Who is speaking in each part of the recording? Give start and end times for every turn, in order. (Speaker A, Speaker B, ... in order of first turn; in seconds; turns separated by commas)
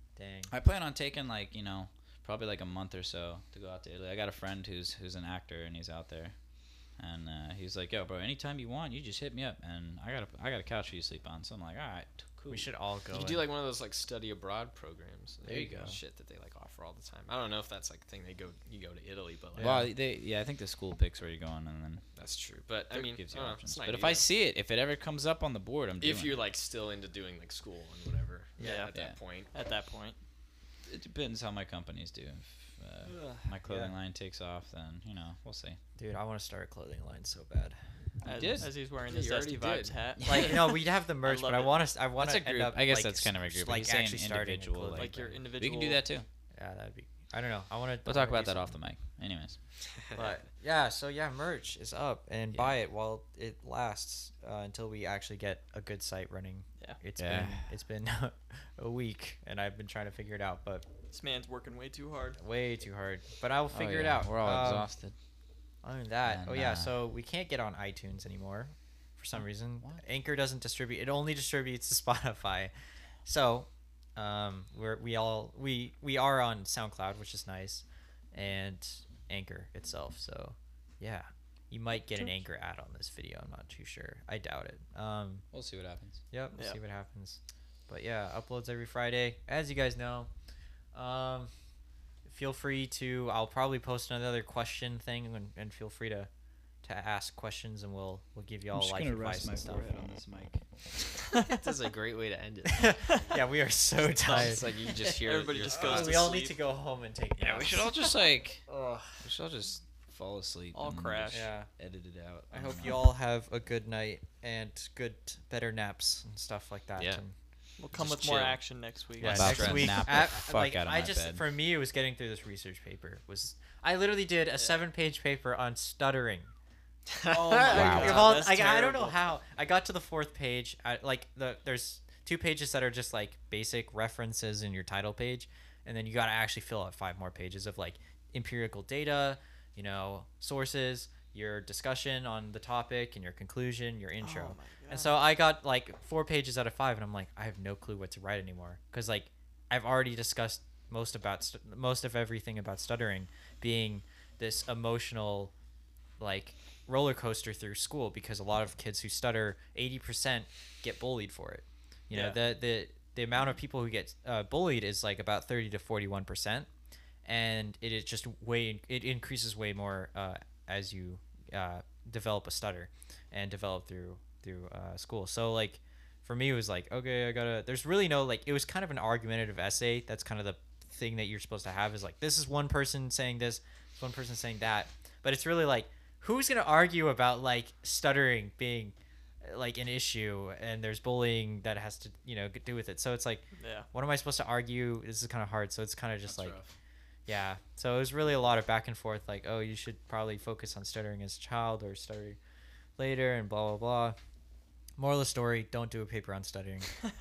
Speaker A: 0.2-0.5, Speaker B: 0.5-6.4, Speaker B: 7.0-12.7, Speaker A: 12.5-13.5, Speaker C: 13.1-19.8, Speaker A: 15.5-16.0, Speaker A: 19.6-19.9, Speaker B: 19.6-22.0, Speaker C: 22.2-24.2, Speaker B: 22.9-26.4, Speaker C: 26.0-29.5, Speaker A: 28.6-28.9, Speaker D: 28.6-28.9, Speaker D: 29.5-30.2, Speaker B: 30.9-35.8, Speaker A: 33.6-33.9, Speaker A: 36.0-37.8, Speaker B: 38.2-38.7, Speaker D: 38.2-41.9, Speaker C: 39.0-40.1, Speaker A: 40.3-45.4, Speaker B: 42.2-46.3, Speaker D: 45.0-46.0, Speaker A: 46.5-48.8, Speaker B: 48.0-49.6, Speaker A: 50.1-60.9, Speaker B: 52.5-52.8, Speaker B: 57.2-57.7, Speaker D: 61.1-62.4, Speaker A: 62.4-64.9, Speaker B: 63.7-65.2, Speaker A: 65.8-72.7, Speaker B: 66.3-66.9, Speaker A: 73.3-85.5, Speaker B: 85.5-86.2, Speaker A: 86.3-90.3, Speaker A: 90.9-91.5, Speaker A: 92.2-96.3, Speaker A: 96.8-100.0, Speaker B: 98.7-100.6, Speaker D: 101.3-101.7, Speaker C: 101.4-103.3, Speaker A: 102.7-104.7, Speaker C: 104.2-106.3, Speaker D: 104.3-106.5, Speaker A: 105.7-108.1, Speaker B: 107.4-108.6, Speaker A: 108.7-109.2, Speaker B: 109.2-113.0, Speaker D: 110.7-111.5, Speaker A: 111.3-111.7, Speaker A: 112.5-117.3, Speaker D: 117.8-120.0, Speaker B: 118.0-118.6, Speaker A: 119.2-126.5, Speaker B: 119.2-121.5, Speaker C: 119.5-119.9, Speaker D: 124.6-124.9, Speaker C: 127.1-128.3, Speaker A: 127.3-155.5, Speaker D: 127.3-129.2, Speaker B: 127.7-128.5, Speaker D: 144.2-145.2, Speaker A: 156.2-166.7, Speaker D: 162.1-162.4, Speaker A: 167.3-196.6, Speaker D: 193.6-193.9, Speaker B: 196.3-196.7, Speaker A: 197.3-202.4, Speaker A: 203.0-204.2, Speaker A: 205.0-206.9